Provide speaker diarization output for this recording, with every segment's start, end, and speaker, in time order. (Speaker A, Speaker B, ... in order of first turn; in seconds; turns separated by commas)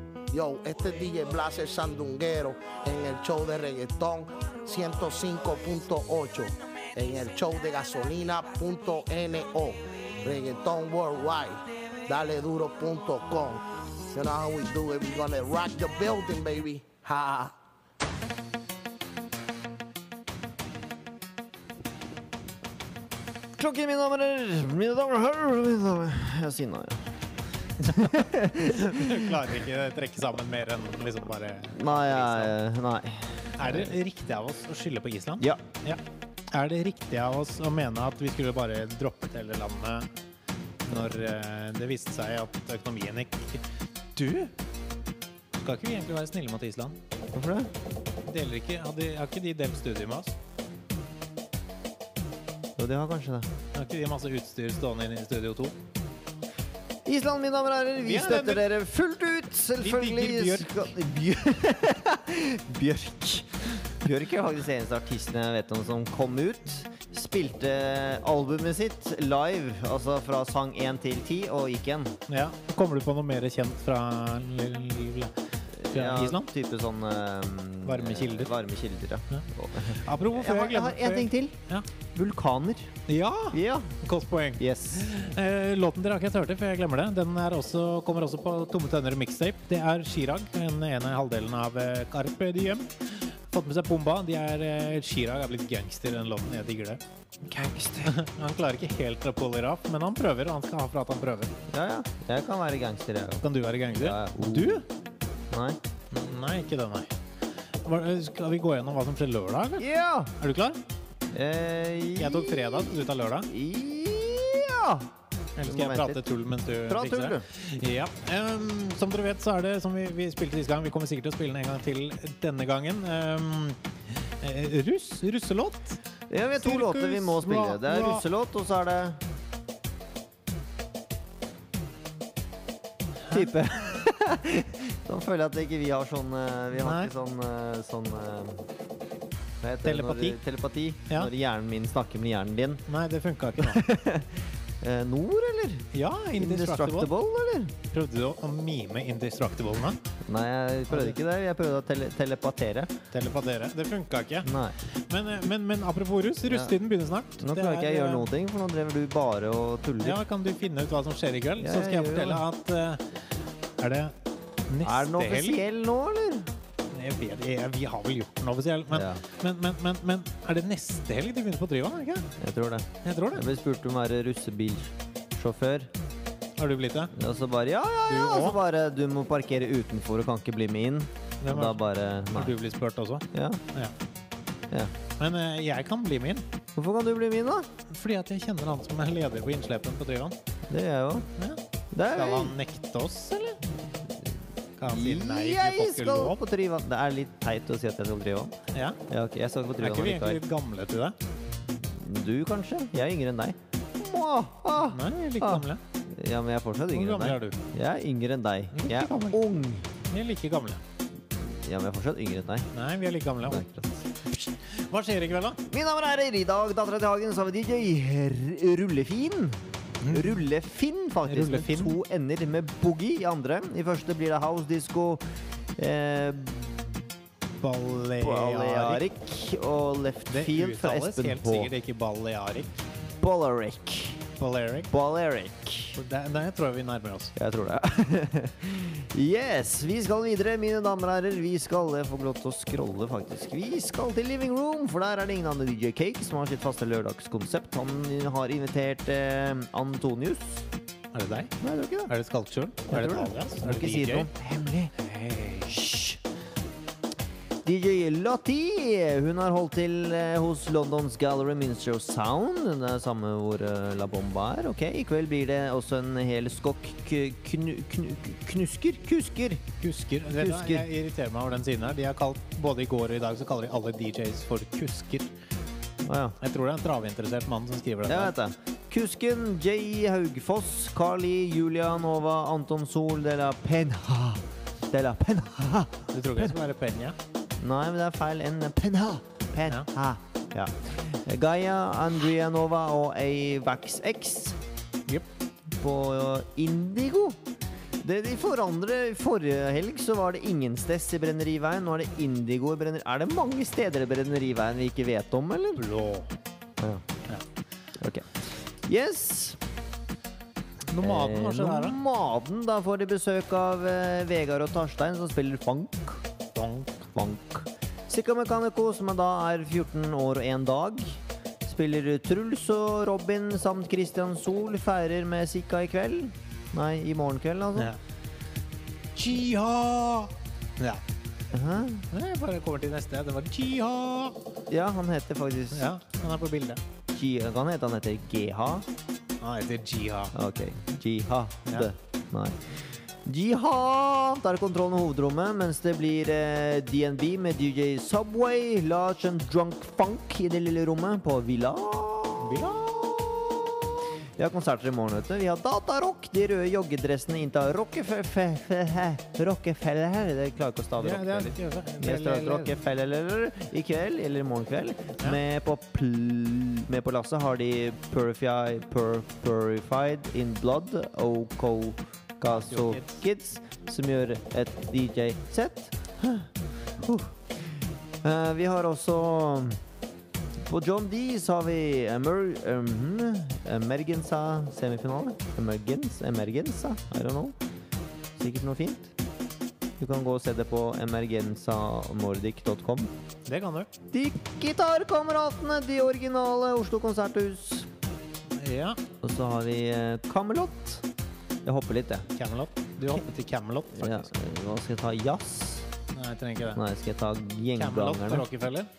Speaker A: 0.3-17.5, Speaker B: 23.6-27.0, Speaker B: 27.8-29.4, Speaker C: 27.9-32.5, Speaker B: 31.7-33.9, Speaker C: 33.6-36.0, Speaker C: 36.5-40.1, Speaker C: 40.8-43.6, Speaker C: 44.1-44.5, Speaker C: 45.5-47.0, Speaker B: 47.3-47.7, Speaker C: 48.2-50.3, Speaker B: 52.8-53.5, Speaker C: 53.7-55.8, Speaker B: 57.0-72.2, Speaker C: 58.0-58.6, Speaker C: 59.8-60.9, Speaker C: 72.3-75.3, Speaker B: 75.8-81.6, Speaker C: 75.9-76.5, Speaker C: 77.8-78.5, Speaker C: 79.3-81.8, Speaker B: 82.1-82.9, Speaker C: 83.1-97.0, Speaker B: 83.5-83.9, Speaker B: 84.6-85.1, Speaker B: 97.5-98.1, Speaker C: 97.5-101.5, Speaker B: 101.7-104.8, Speaker C: 103.4-104.8, Speaker B: 105.5-105.8, Speaker C: 106.1-107.1, Speaker C: 107.8-109.8, Speaker B: 109.8-110.3, Speaker C: 110.4-110.8, Speaker B: 111.3-112.9, Speaker C: 112.2-113.5, Speaker B: 113.5-115.1, Speaker C: 115.6-123.8, Speaker B: 115.6-116.2, Speaker B: 116.8-117.5, Speaker C: 124.4-126.0, Speaker B: 126.3-129.2, Speaker C: 126.6-128.2, Speaker C: 133.2-133.5, Speaker B: 133.3-138.7, Speaker C: 136.8-137.1, Speaker B: 139.6-142.8, Speaker C: 139.8-140.4, Speaker C: 142.9-143.8, Speaker B: 143.6-147.7, Speaker C: 145.9-147.1, Speaker C: 147.9-150.0, Speaker B: 150.2-152.9, Speaker C: 150.9-151.2, Speaker C: 153.1-154.5, Speaker B: 154.4-154.8, Speaker C: 155.1-158.3, Speaker B: 156.4-156.7, Speaker B: 157.4-160.2, Speaker C: 160.0-163.1, Speaker B: 161.6-162.4, Speaker C: 163.8-164.1, Speaker C: 164.7-165.6, Speaker B: 164.8-166.5, Speaker C: 166.9-172.3, Speaker B: 168.9-169.2, Speaker B: 172.4-175.9, Speaker C: 173.0-173.4, Speaker C: 176.6-177.1, Speaker B: 177.1-182.6, Speaker C: 178.1-178.6, Speaker C: 181.4-181.8, Speaker C: 182.3-183.9, Speaker B: 183.3-183.6, Speaker C: 185.2-186.4, Speaker B: 186.7-187.7, Speaker C: 187.9-190.3, Speaker B: 190.7-191.3, Speaker B: 191.9-192.6, Speaker C: 192.1-193.6, Speaker C: 194.8-196.4, Speaker B: 194.9-198.5, Speaker C: 198.7-199.0, Speaker B: 199.1-200.4, Speaker C: 199.8-201.2, Speaker B: 201.8-209.9, Speaker C: 204.9-205.8, Speaker C: 206.9-207.6, Speaker C: 208.7-209.4, Speaker C: 210.1-210.8, Speaker B: 211.4-212.7, Speaker C: 212.7-213.6, Speaker B: 213.4-214.3, Speaker C: 214.4-215.6, Speaker B: 215.7-225.2, Speaker C: 220.0-220.4, Speaker C: 221.3-222.0, Speaker B: 225.8-227.0, Speaker C: 227.6-229.0, Speaker B: 228.2-231.7, Speaker C: 230.3-232.7, Speaker B: 233.2-234.2, Speaker C: 234.4-234.9, Speaker B: 234.9-236.0, Speaker C: 235.9-237.3, Speaker B: 237.3-250.6, Speaker C: 251.1-251.5, Speaker B: 251.6-252.1, Speaker C: 252.1-254.3, Speaker B: 252.9-254.9, Speaker C: 254.9-255.7, Speaker B: 255.7-256.2, Speaker B: 257.6-269.6, Speaker C: 269.8-275.3, Speaker B: 270.4-270.9, Speaker B: 276.0-276.4, Speaker C: 276.4-278.3, Speaker B: 278.0-286.6, Speaker C: 286.1-287.1, Speaker B: 287.5-294.6, Speaker B: 295.7-297.4, Speaker B: 298.0-305.8, Speaker C: 305.8-306.3, Speaker B: 308.0-309.6, Speaker C: 310.9-312.0, Speaker B: 311.0-316.2, Speaker C: 316.5-317.1, Speaker B: 317.1-327.9, Speaker C: 329.1-331.0, Speaker B: 331.5-332.1, Speaker C: 332.1-334.4, Speaker B: 334.7-335.9, Speaker C: 335.7-336.8, Speaker B: 337.1-338.9, Speaker C: 339.4-340.3, Speaker B: 340.3-342.6, Speaker B: 343.2-377.6, Speaker C: 352.4-352.8, Speaker C: 361.0-362.7, Speaker C: 372.4-373.2, Speaker B: 378.2-379.8, Speaker B: 380.6-387.6, Speaker B: 388.4-389.1, Speaker B: 390.0-393.1, Speaker C: 393.5-393.9, Speaker B: 394.1-397.9, Speaker C: 398.6-399.0, Speaker B: 399.2-401.0, Speaker B: 401.6-402.3, Speaker C: 402.4-404.3, Speaker B: 403.9-405.9, Speaker C: 406.1-406.8, Speaker B: 406.7-408.5, Speaker C: 407.8-408.9